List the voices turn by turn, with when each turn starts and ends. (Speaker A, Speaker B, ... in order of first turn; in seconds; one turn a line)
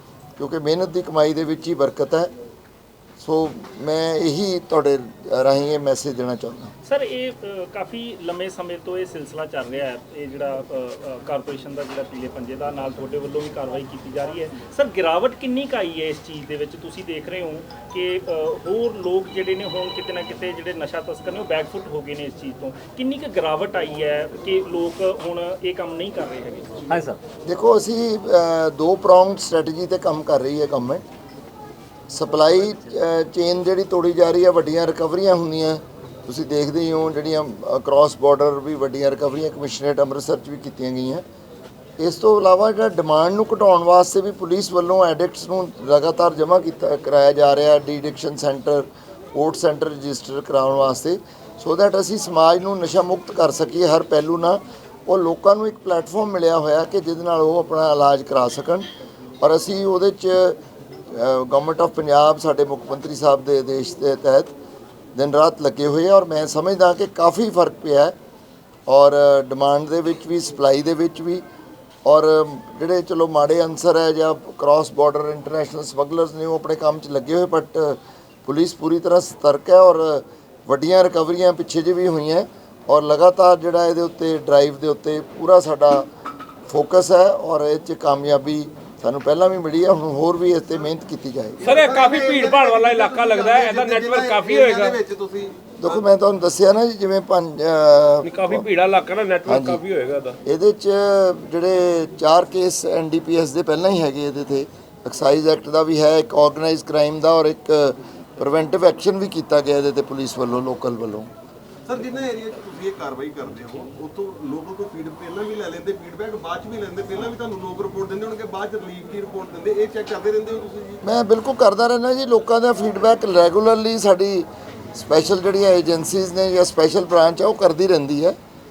Speaker A: 0.4-2.3
Speaker A: 3.2-6.7
Speaker B: 6.8-26.9
Speaker A: 27.4-31.0
Speaker A: 32.1-41.2
Speaker A: 42.0-58.9
Speaker A: 59.4-64.5
Speaker A: 65.2-68.2
Speaker A: 68.9-71.4
Speaker A: 72.0-86.1
Speaker A: 86.7-91.6
Speaker C: 91.6-96.0
Speaker D: 91.7-95.0
Speaker A: 95.8-98.7
Speaker D: 98.2-100.4
Speaker A: 99.5-99.8
Speaker A: 100.5-111.3
Speaker C: 111.9-121.0
Speaker A: 121.0-128.4